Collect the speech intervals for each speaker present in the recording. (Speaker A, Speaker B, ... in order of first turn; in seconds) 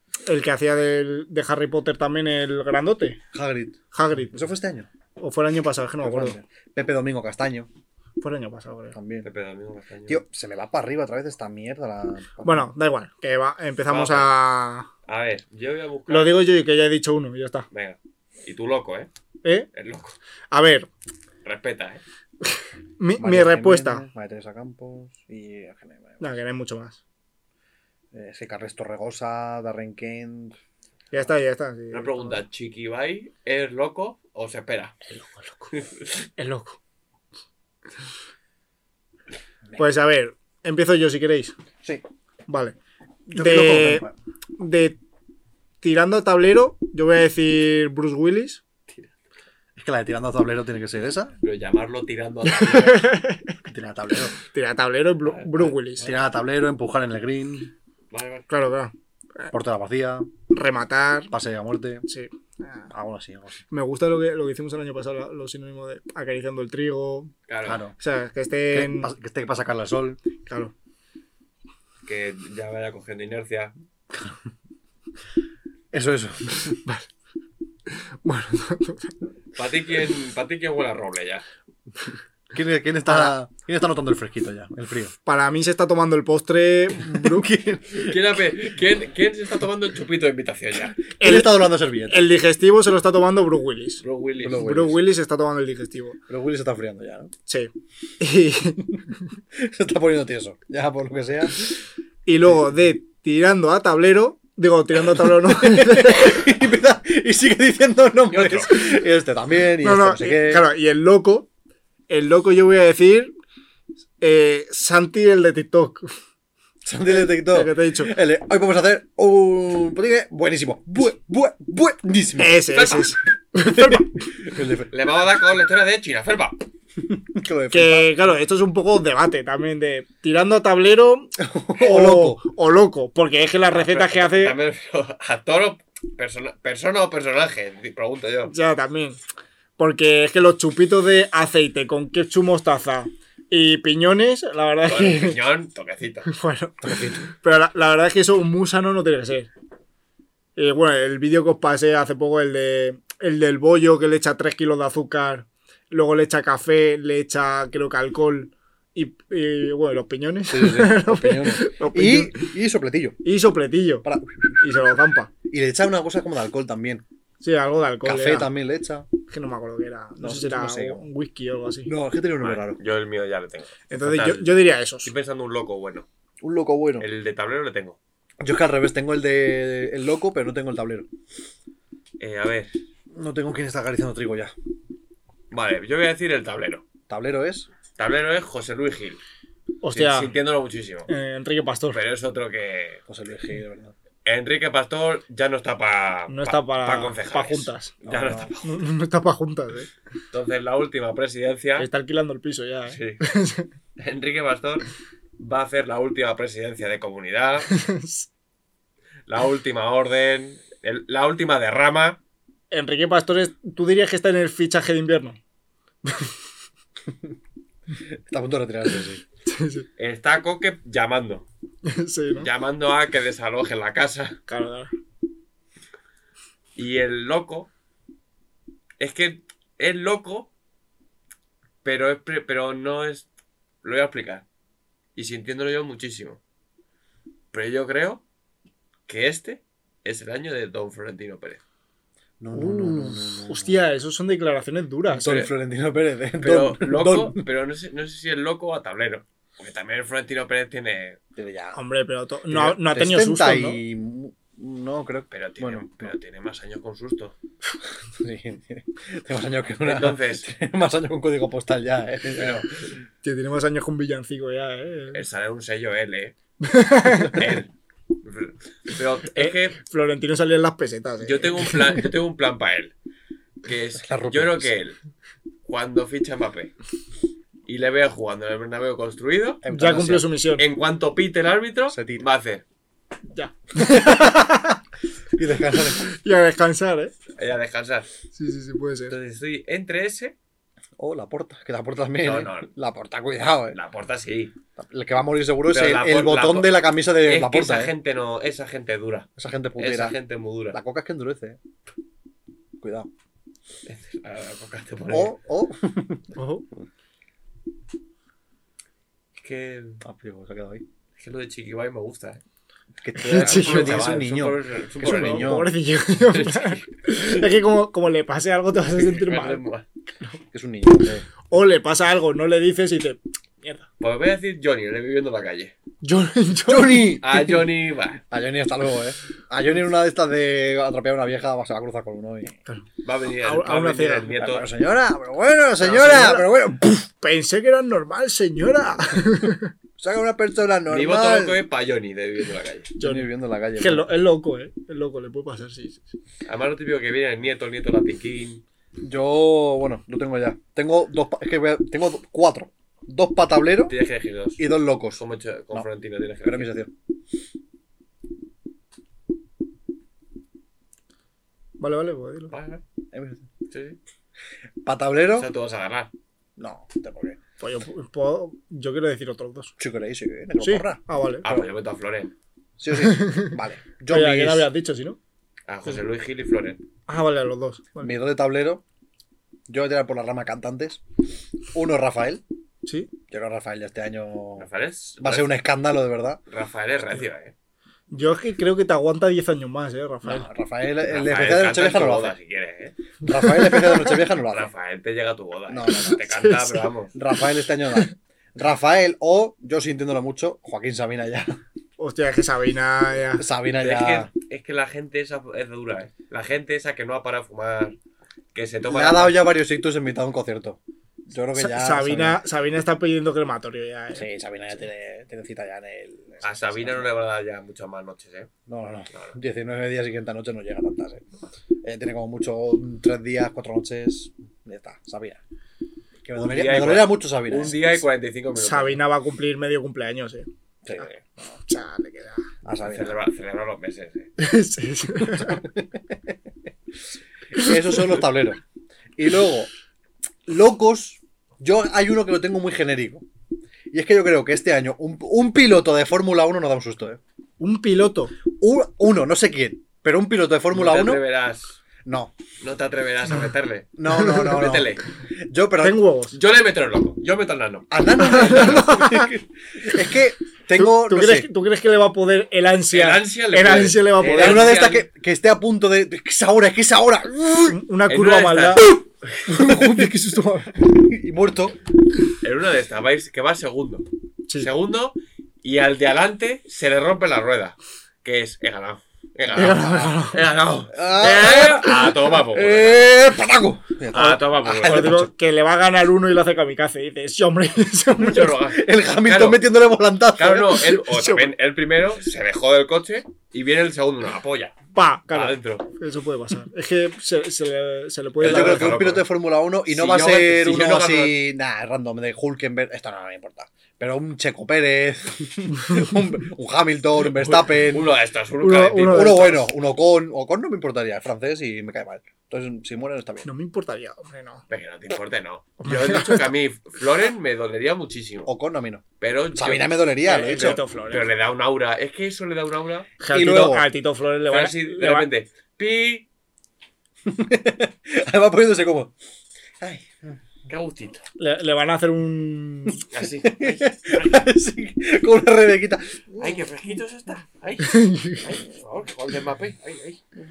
Speaker A: 0.3-3.2, 3.9-4.4, 5.2-6.4, 8.2-9.0, 12.4-14.9, 16.1-17.7, 20.5-20.9, 23.0-24.1, 26.2-27.0, 31.1-32.4, 35.1-35.7, 36.4-36.8, 39.8-41.5, 42.5-42.8, 43.3-44.1, 44.6-45.0, 45.8-48.6, 52.5-53.5, 54.5-56.1, 58.5-59.5, 60.5-61.3, 62.1-62.9, 63.7-67.3, 68.0-69.1, 70.5-70.7, 76.8-77.1, 77.9-79.2, 85.3-87.5, 91.2-96.2, 97.5-99.0, 102.3-106.4, 109.8-111.5, 112.1-113.3, 114.2-116.1, 117.1-118.1, 122.4-124.0, 127.7-134.6, 138.5-139.2, 139.8-145.4, 146.3-149.5, 150.6-162.5, 163.2-164.1, 164.6-165.3, 167.4-168.5, 169.3-171.9, 173.9-175.1, 189.8-190.3, 191.1-192.0, 196.3-197.9, 198.6-199.9, 201.8-203.7, 207.7-208.3, 212.7-215.4, 216.1-216.3, 219.5-219.9, 221.8-222.5, 224.5-224.9, 242.5-245.3, 251.7-253.8, 263.2-265.2, 266.6-267.4, 269.4-271.8, 279.7-280.6, 283.3-284.8, 286.0-287.1, 288.4-289.2, 306.4-306.6, 313.2-314.3, 315.0-319.6, 321.5-323.9, 326.0-327.1, 333.4-334.3, 335.8-339.7, 343.0-346.0, 361.8-362.5, 367.6-369.7, 370.6-371.4, 373.0-373.6, 374.1-375.2, 377.1-378.1, 388.1-390.5, 393.5-393.9, 396.1-396.9, 402.0-403.5, 411.6-414.3, 428.6-430.5, 431.7-432.4, 434.4-435.6, 447.6-448.3, 455.8-456.4, 458.3-459.3, 460.8-464.7, 467.7-468.9, 469.5-470.7, 479.5-480.4, 484.2-488.5, 491.1-491.5, 494.9-498.9, 508.6-509.7, 513.4-514.6, 515.8-516.4, 520.2-521.3, 523.2-525.3, 531.4-533.0, 537.8-538.4
Speaker B: 3.3-4.9, 6.0-7.7, 8.9-9.3, 10.1-12.7, 23.2-26.3, 28.1-30.6, 43.3-44.1, 49.8-51.4, 53.7-54.4, 56.0-57.7, 59.5-60.3, 61.3-62.0, 62.9-63.6, 67.6-67.9, 68.7-70.2, 75.9-76.8, 82.5-85.1, 87.0-88.2, 91.2-92.3, 94.4-95.0, 96.3-97.3, 99.5-101.6, 105.1-110.7, 116.8-122.7, 123.6-124.9, 127.1-128.2, 131.4-132.4, 146.8-147.3, 160.5-163.2, 164.0-164.7, 165.5-167.0, 168.0-169.1, 170.2-171.1, 171.9-172.8, 176.4-177.1, 178.4-181.1, 183.1-184.5, 187.1-187.7, 193.1-193.9, 198.0-198.5, 218.3-219.2, 242.4-243.8, 245.2-247.4, 251.4-251.8, 252.5-256.1, 258.2-262.8, 274.0-274.7, 279.6-280.3, 281.9-282.3, 283.8-284.6, 285.4-286.1, 291.0-293.8, 294.8-297.9, 299.4-300.2, 300.7-301.6, 302.8-303.1, 305.1-306.3, 310.0-310.8, 313.0-315.7, 320.5-321.3, 326.7-327.8, 328.3-332.6, 334.3-336.9, 340.0-341.6, 343.0-344.1, 349.0-354.0, 354.6-355.2, 356.4-356.9, 363.1-363.5, 364.9-365.5, 366.6-367.4, 369.8-371.7, 372.8-374.7, 378.0-378.8, 379.7-381.0, 381.7-382.4, 383.3-384.7, 385.2-386.4, 390.2-392.4, 393.2-394.7, 395.7-396.2, 397.1-401.6, 403.4-404.3, 408.9-412.4, 414.1-417.1, 418.7-421.3, 421.8-425.4, 426.2-428.0, 430.9-431.6, 432.6-433.2, 435.2-436.4, 437.5-438.6, 439.2-439.7, 440.5-443.2, 443.9-447.2, 448.6-451.2, 452.1-452.3, 454.0-456.0, 457.9-461.5, 464.2-467.8, 469.5-470.1, 470.7-471.8, 480.9-485.3, 488.5-491.1, 498.4-508.2, 509.0-513.5, 518.5-520.8, 523.3-523.9, 527.2-529.1, 529.8-530.4, 533.4-536.6
Speaker C: 9.2-10.2, 13.9-14.3, 15.1-16.4, 17.7-19.1, 19.7-20.2, 21.4-22.0, 31.9-35.0, 35.7-36.2, 51.4-53.1, 55.3-56.1, 58.1-58.5, 67.5-67.8, 72.0-73.7, 79.6-81.4, 88.0-91.0, 94.0-94.9, 108.3-108.9, 122.7-123.1, 124.9-126.6, 133.7-138.5, 144.9-146.3, 172.4-176.1, 177.0-178.0, 182.2-182.7, 185.5-186.8, 188.0-189.2, 189.9-191.1, 191.9-193.0, 194.2-198.8, 200.3-201.9, 202.9-203.2, 204.0-207.7, 209.3-212.2, 220.0-221.5, 222.4-224.4, 226.8-227.7, 229.0-230.5, 231.8-233.3, 233.8-234.4, 235.2-236.4, 237.5-238.2, 239.1-241.6, 245.2-245.5, 246.4-251.2, 255.3-257.3, 259.8-260.5, 262.4-262.7, 265.1-266.3, 267.2-267.7, 268.2-269.8, 271.2-272.9, 273.6-275.0, 275.7-276.7, 277.7-279.6, 280.6-282.6, 287.4-288.1, 289.1-290.4, 292.2-292.7, 293.7-294.5, 295.7-300.8, 303.9-305.4, 309.4-310.0, 311.2-312.4, 313.2-315.6, 316.2-317.4, 318.9-319.9, 324.0-325.7, 327.2-328.2, 333.0-334.7, 340.9-342.9, 346.5-348.6, 353.9-356.7, 362.5-362.8, 363.7-364.0, 365.4-366.1, 371.4-372.3, 375.7-376.8, 384.6-385.5, 386.5-387.5, 391.1-393.0, 394.5-397.1, 403.8-408.0, 408.5-409.4, 416.4-418.5, 426.4-429.0, 432.8-434.3, 450.7-451.8, 452.6-455.1, 456.3-458.9, 462.9-465.1, 468.1-469.0, 472.4-474.1, 474.6-483.2, 484.1-485.2, 488.2-489.7, 490.4-494.8, 495.3-495.9, 498.4-499.3, 499.9-501.4, 507.2-509.4, 514.7-518.5, 519.2-523.1, 524.5-526.3, 530.7-531.2, 533.1-534.5, 536.4-540.2